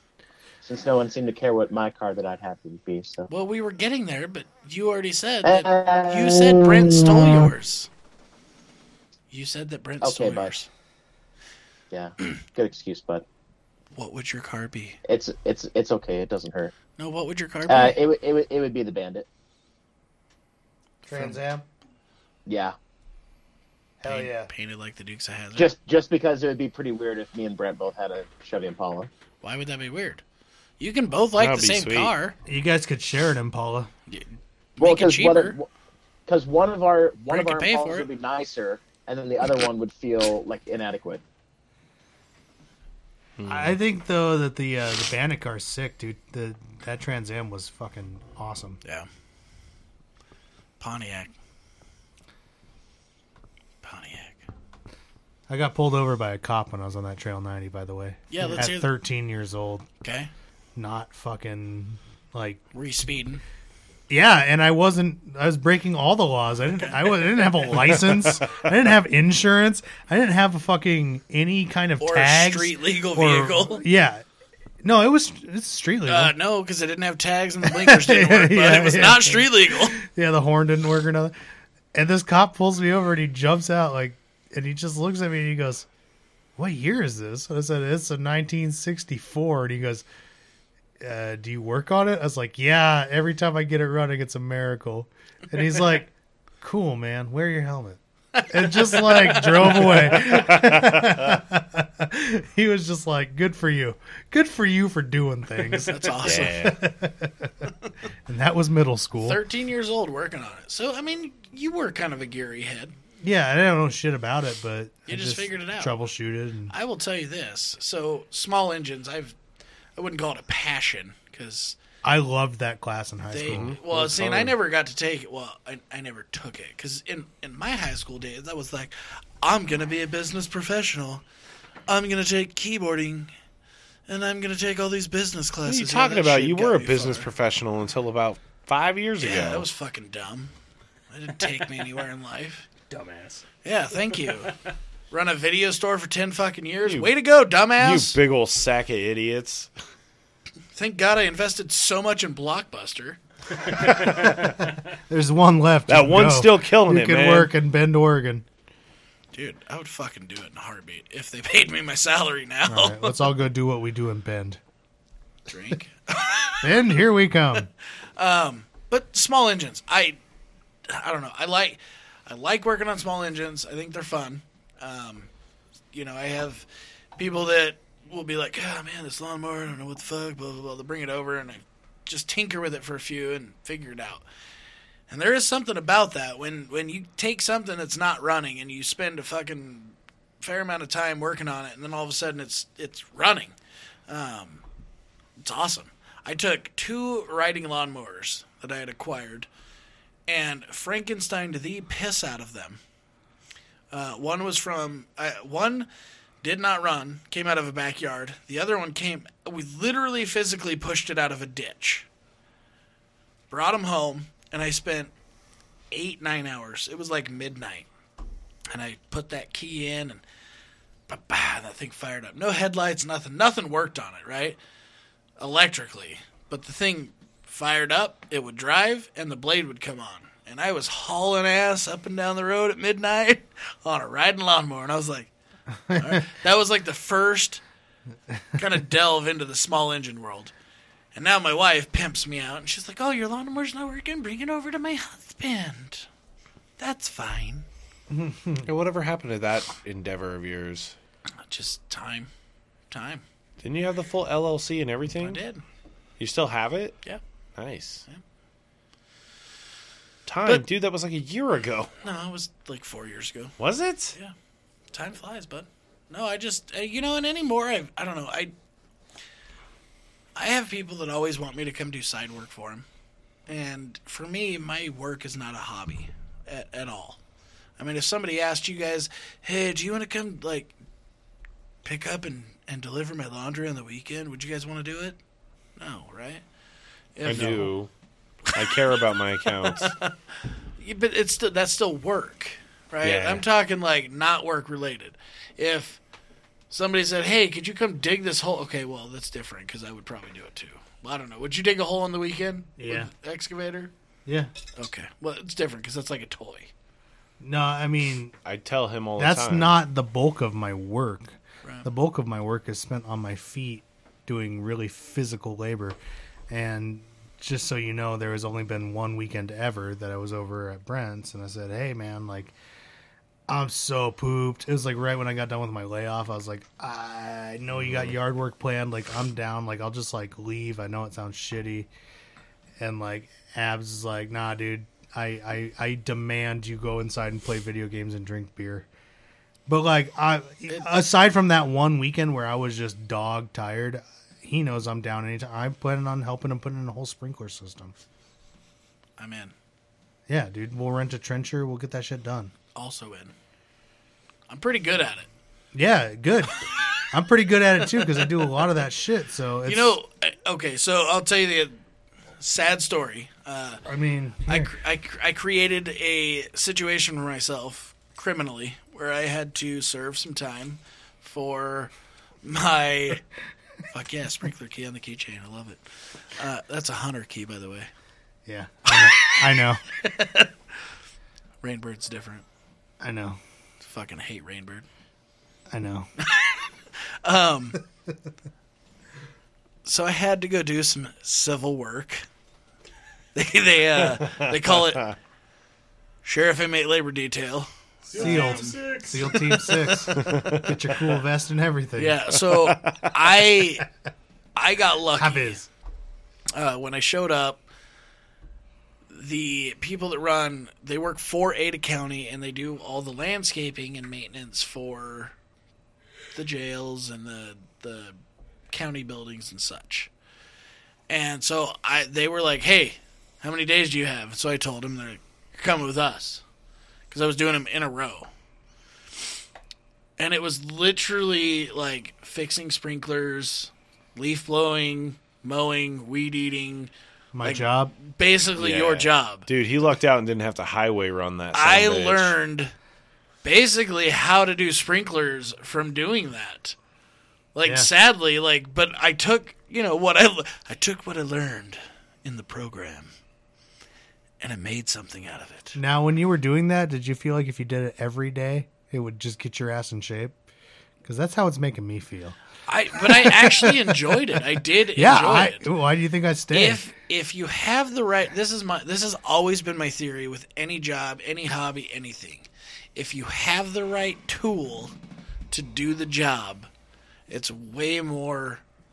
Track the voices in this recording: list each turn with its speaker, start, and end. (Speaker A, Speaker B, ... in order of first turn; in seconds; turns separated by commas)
Speaker A: 0.6-3.3, Speaker B: 3.3-7.9, Speaker A: 5.4-7.5, Speaker B: 9.3-10.7, Speaker A: 10.0-10.5, Speaker A: 11.9-13.2, Speaker B: 13.9-15.0, Speaker A: 15.1-16.7, Speaker B: 17.0-18.0, Speaker A: 17.7-19.2, Speaker C: 21.1-21.6, Speaker A: 22.5-22.7, Speaker C: 24.0-24.5, Speaker B: 24.0-25.7, Speaker A: 25.6-29.1, Speaker B: 29.4-30.2, Speaker B: 30.8-32.4, Speaker D: 31.4-32.1, Speaker C: 32.5-33.9, Speaker B: 34.1-35.6, Speaker A: 34.8-35.7, Speaker A: 36.3-41.2, Speaker B: 37.3-38.1, Speaker D: 43.4-43.7, Speaker C: 43.5-48.8, Speaker B: 50.8-51.3, Speaker B: 53.8-54.5, Speaker C: 55.5-59.9, Speaker B: 58.3-58.9, Speaker B: 60.0-60.3, Speaker C: 60.8-62.6, Speaker B: 62.7-63.4, Speaker C: 64.1-74.2, Speaker B: 66.8-67.1, Speaker B: 72.0-73.8, Speaker C: 74.8-76.3, Speaker B: 76.1-80.0, Speaker C: 77.6-81.3, Speaker C: 81.9-85.9, Speaker C: 86.6-90.0, Speaker C: 91.0-98.0, Speaker B: 98.3-100.1, Speaker C: 98.5-107.7, Speaker D: 100.3-101.2, Speaker B: 105.8-106.7, Speaker D: 106.2-106.8, Speaker C: 108.3-109.4, Speaker B: 109.2-112.9, Speaker C: 113.2-116.7, Speaker B: 115.1-116.0, Speaker B: 116.7-119.3, Speaker B: 120.0-121.8, Speaker C: 122.0-123.8, Speaker B: 123.3-131.2, Speaker D: 123.5-124.5, Speaker B: 131.9-133.3, Speaker B: 134.1-137.3, Speaker D: 135.7-139.7, Speaker B: 139.2-140.5, Speaker B: 141.1-142.7, Speaker E: 142.9-143.4, Speaker B: 143.6-144.5, Speaker E: 144.1-144.4, Speaker B: 145.1-148.2, Speaker D: 146.8-147.1, Speaker D: 147.8-149.7, Speaker B: 150.7-153.8, Speaker E: 153.8-154.5, Speaker D: 154.1-154.4, Speaker C: 155.1-158.4, Speaker D: 155.9-157.5, Speaker B: 159.3-163.2, Speaker C: 162.7-164.6, Speaker B: 165.5-166.8, Speaker C: 166.6-167.7, Speaker B: 168.2-170.2, Speaker B: 170.9-175.3, Speaker B: 175.9-176.7, Speaker B: 177.2-184.2, Speaker B: 185.1-193.5, Speaker B: 194.1-194.6, Speaker B: 195.4-199.5, Speaker B: 200.3-202.8, Speaker B: 203.9-205.9, Speaker B: 206.4-212.1, Speaker B: 213.5-215.1, Speaker B: 215.9-217.9, Speaker B: 218.7-220.2, Speaker B: 221.1-224.6, Speaker B: 225.4-235.3, Speaker C: 235.9-236.2, Speaker B: 235.9-237.6, Speaker B: 238.6-240.5, Speaker B: 241.1-246.1, Speaker B: 246.8-247.7, Speaker C: 248.1-248.7, Speaker D: 248.6-250.9, Speaker B: 251.4-252.3, Speaker B: 252.9-253.2, Speaker D: 253.6-255.4, Speaker B: 255.2-255.6, Speaker D: 256.2-257.0, Speaker D: 257.6-258.0, Speaker D: 260.2-261.9, Speaker B: 262.0-263.6, Speaker D: 263.6-264.1, Speaker B: 264.9-268.5, Speaker B: 270.4-272.8, Speaker B: 273.5-277.2, Speaker B: 277.8-280.7, Speaker B: 281.8-285.2, Speaker B: 285.8-286.4, Speaker B: 287.1-287.7, Speaker D: 287.2-287.9, Speaker D: 288.5-289.9, Speaker B: 288.5-288.8, Speaker B: 289.4-290.1, Speaker B: 290.8-296.0, Speaker D: 293.0-293.4, Speaker B: 296.7-303.9, Speaker C: 302.8-303.1, Speaker C: 304.2-304.5, Speaker B: 304.7-306.7, Speaker C: 307.4-308.3, Speaker D: 308.4-309.8, Speaker C: 309.2-316.0, Speaker C: 316.5-322.5, Speaker C: 323.5-331.9, Speaker D: 327.7-328.2, Speaker C: 332.8-338.9, Speaker C: 339.7-347.9, Speaker B: 340.7-341.0, Speaker B: 349.2-349.5, Speaker C: 350.3-352.5, Speaker B: 352.7-353.3, Speaker B: 354.5-355.3, Speaker C: 355.7-356.6, Speaker C: 357.1-360.0, Speaker B: 359.6-361.8, Speaker B: 362.4-363.8, Speaker C: 363.9-364.7, Speaker B: 364.5-371.9, Speaker B: 372.4-373.2, Speaker B: 373.9-375.8, Speaker B: 376.3-377.9, Speaker C: 378.4-379.8, Speaker B: 378.9-380.5, Speaker B: 381.6-382.4, Speaker C: 383.0-383.4, Speaker B: 383.8-384.8, Speaker C: 385.7-386.1, Speaker B: 386.2-386.6, Speaker B: 387.2-387.8, Speaker B: 389.8-392.2, Speaker B: 393.3-395.1, Speaker D: 394.3-394.5, Speaker B: 396.2-399.7, Speaker E: 398.0-399.6, Speaker C: 398.2-402.2, Speaker D: 400.1-400.8, Speaker B: 401.9-403.9, Speaker D: 402.5-403.2, Speaker B: 404.6-405.6, Speaker C: 405.2-405.6, Speaker B: 406.5-407.6, Speaker B: 409.1-415.3, Speaker B: 416.3-418.1, Speaker B: 418.7-420.1, Speaker B: 421.1-426.4, Speaker B: 427.1-428.3, Speaker B: 430.2-436.9, Speaker C: 437.3-437.9, Speaker B: 437.4-439.5, Speaker D: 438.6-442.4, Speaker B: 441.5-442.7, Speaker B: 443.4-446.8, Speaker B: 447.5-453.1, Speaker B: 454.4-455.8, Speaker C: 455.7-460.4, Speaker C: 461.0-462.4, Speaker B: 462.7-465.7, Speaker C: 463.0-464.0, Speaker C: 464.9-466.8, Speaker B: 466.5-474.9, Speaker B: 475.5-476.7, Speaker B: 477.3-478.6